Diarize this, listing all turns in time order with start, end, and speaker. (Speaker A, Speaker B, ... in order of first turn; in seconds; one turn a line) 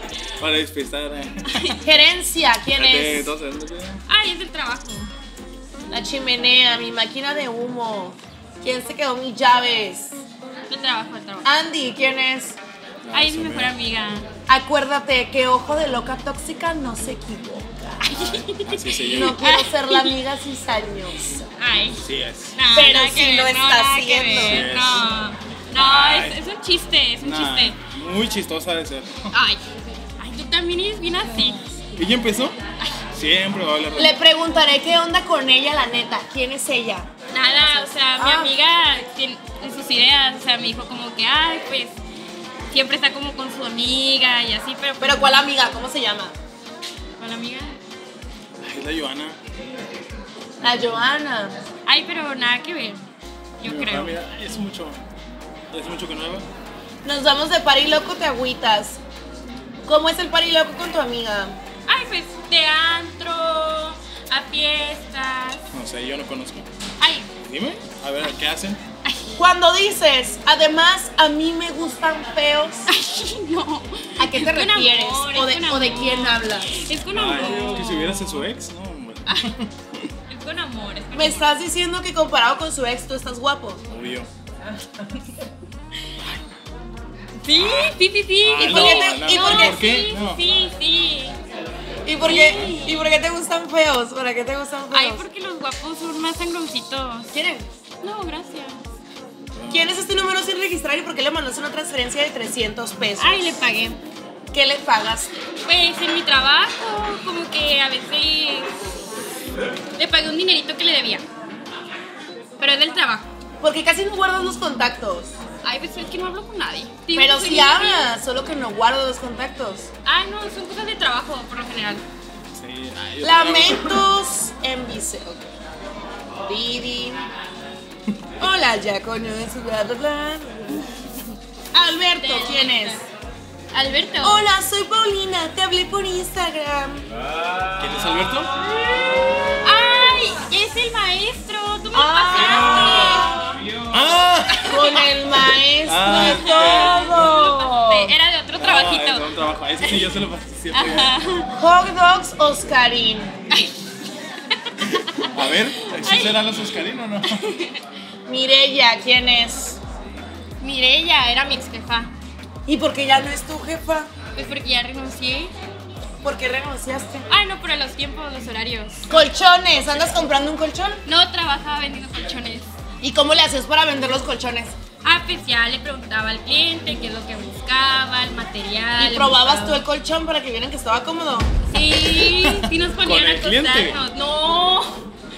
Speaker A: 0.4-1.8
Speaker B: 1.5-1.8
Speaker C: 1.8-3.3
Speaker A: 2.7-4.0
Speaker B: 4.1-5.1
Speaker C: 5.9-10.2
Speaker B: 10.7-11.5
Speaker C: 11.4-12.6
Speaker A: 13.1-13.7
Speaker B: 13.1-14.3
Speaker C: 14.5-18.4
Speaker B: 18.1-20.2
Speaker A: 18.2-19.4
Speaker C: 19.1-21.5
Speaker B: 21.6-22.0
Speaker A: 22.0-23.0
Speaker B: 22.6-27.8
Speaker C: 22.7-24.7
Speaker A: 24.4-25.1
Speaker A: 25.7-26.4
Speaker A: 27.2-29.3
Speaker B: 29.3-29.6
Speaker B: 30.2-31.6
Speaker A: 32.0-32.5
Speaker A: 33.2-34.2
Speaker C: 34.0-37.1
Speaker B: 37.3-42.0
Speaker C: 37.6-38.5
Speaker B: 42.7-45.4
Speaker C: 45.0-46.4
Speaker B: 47.2-47.8
Speaker A: 48.6-49.4
Speaker C: 50.6-51.5
Speaker B: 51.9-53.0
Speaker B: 53.6-54.2
Speaker A: 53.6-55.0
Speaker A: 55.7-56.5
Speaker C: 57.0-59.0
Speaker C: 59.9-61.6
Speaker B: 61.9-65.7
Speaker A: 65.7-66.7
Speaker B: 67.0-67.3
Speaker A: 67.4-68.8
Speaker C: 69.4-72.9
Speaker B: 72.9-78.3
Speaker C: 74.2-76.8
Speaker A: 77.1-80.1
Speaker B: 80.3-81.5
Speaker C: 81.1-83.8
Speaker A: 83.9-84.3
Speaker B: 87.4-91.4
Speaker A: 88.4-90.4
Speaker C: 88.6-89.8
Speaker C: 92.1-95.2
Speaker B: 92.2-93.1
Speaker B: 94.9-97.3
Speaker C: 97.3-97.7
Speaker B: 98.0-98.8
Speaker A: 99.6-99.9
Speaker C: 99.7-103.6
Speaker B: 103.2-104.0
Speaker C: 104.5-105.3
Speaker B: 105.7-108.7
Speaker B: 110.0-111.2
Speaker B: 112.6-113.3
Speaker C: 113.6-115.3
Speaker B: 115.6-118.1
Speaker C: 117.1-119.9
Speaker B: 120.0-122.0
Speaker A: 122.5-124.0
Speaker C: 123.2-125.5
Speaker C: 126.5-127.2
Speaker C: 128.4-130.8
Speaker C: 131.7-133.1
Speaker B: 132.2-133.0
Speaker B: 133.7-134.5
Speaker C: 134.2-137.1
Speaker A: 137.7-138.5
Speaker B: 138.6-143.6
Speaker C: 141.9-143.4
Speaker A: 143.9-144.9
Speaker C: 144.6-148.1
Speaker A: 145.8-147.2
Speaker B: 146.1-149.3
Speaker A: 148.6-151.2
Speaker B: 150.7-151.5
Speaker C: 151.6-153.3
Speaker A: 155.3-157.4
Speaker B: 156.0-156.4
Speaker B: 157.2-157.8
Speaker C: 158.3-159.8
Speaker B: 160.6-162.1
Speaker C: 162.7-164.1
Speaker B: 164.3-165.5
Speaker C: 166.2-167.2
Speaker B: 167.3-169.1
Speaker C: 169.1-171.0
Speaker B: 171.1-172.7
Speaker C: 173.0-174.8
Speaker B: 175.0-179.8
Speaker C: 179.0-181.5
Speaker B: 181.7-185.0
Speaker A: 182.1-184.0